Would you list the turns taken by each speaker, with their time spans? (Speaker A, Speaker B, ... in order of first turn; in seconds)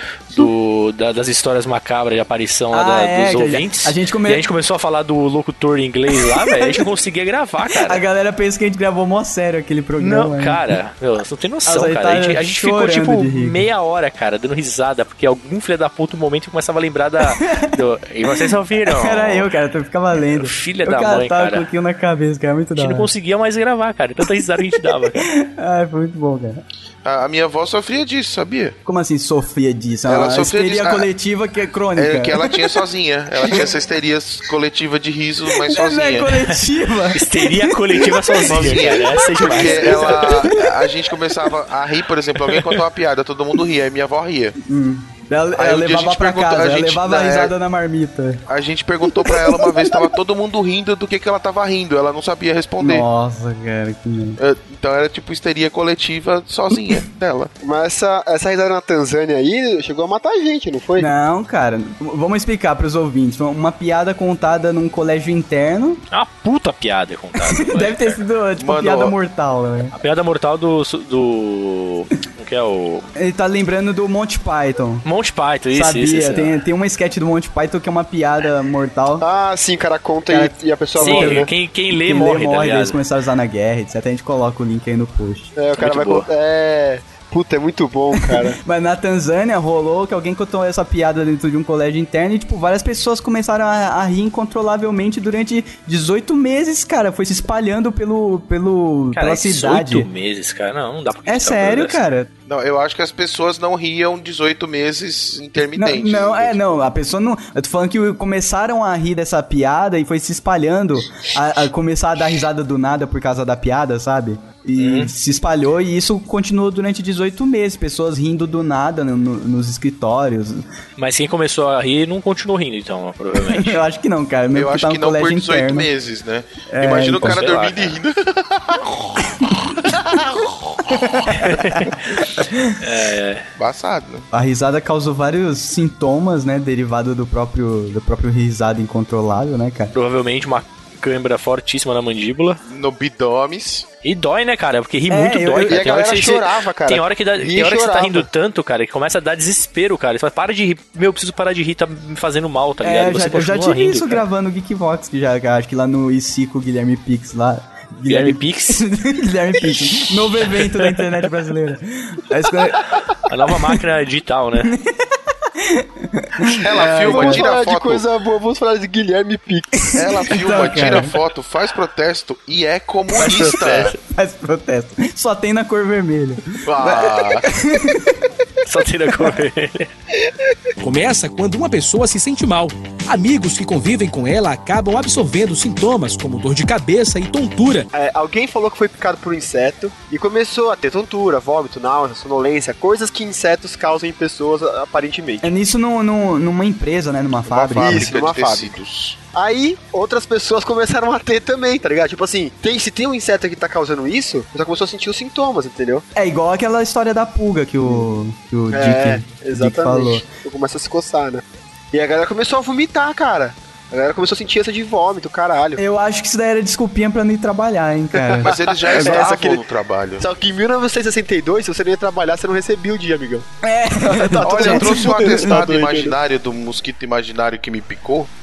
Speaker A: 0.3-8.0, 10.0-19.5, 20.3-21.7, 22.8-25.3, 37.1-40.5, 42.5-42.8, 66.1-68.2, 69.9-73.1, 75.0-76.5, 81.0-83.0, 85.8-86.3, 99.1-102.0, 114.8-115.1, 121.0-123.8, 127.2-128.0, 131.3-132.3, 132.8-133.5, 139.9-142.6, 144.0-154.2, 158.1-158.9, 160.5-161.0, 163.3-164.7, 173.1-173.9, 178.7-179.9
Speaker B: 2.7-4.5, 6.2-6.9, 7.7-10.8, 11.7-13.6, 17.3-17.7, 18.3-23.1, 24.4-26.6, 28.9-32.8, 33.4-33.7, 35.5-40.6, 44.6-48.4, 49.1-50.1, 52.8-54.4, 61.0-66.0, 67.4-69.9, 73.2-75.0, 75.7-79.2, 80.3-85.5, 88.6-100.1, 101.3-102.3, 105.8-120.6, 123.4-125.9, 126.7-127.5, 131.1-132.8, 134.3-139.9, 145.1-145.9, 152.8-162.8, 164.6-167.4, 170.3-171.2, 174.1-178.3, 195.4-198.1, 206.2-210.2, 215.8-219.2, 223.6-225.6
Speaker C: 27.0-28.8, 30.1-31.1, 32.0-36.3, 38.5-44.6, 45.5-47.5, 48.5-53.0, 54.4-57.5, 68.6-69.1, 102.5-106.8, 124.5-131.2, 133.6-134.3, 142.7-143.9, 166.5-168.1, 169.9-173.9, 176.6-177.5, 197.5-199.2, 218.4-220.3, 224.4-228.3
Speaker D: 57.6-61.1, 79.2-81.5, 85.6-88.6, 145.7-148.3, 166.7-169.9, 187.9-195.5, 197.7-198.8, 199.3-206.1, 208.7-215.8, 218.9-219.6, 220.2-223.5, 224.1-226.2
Speaker E: 180.8-187.9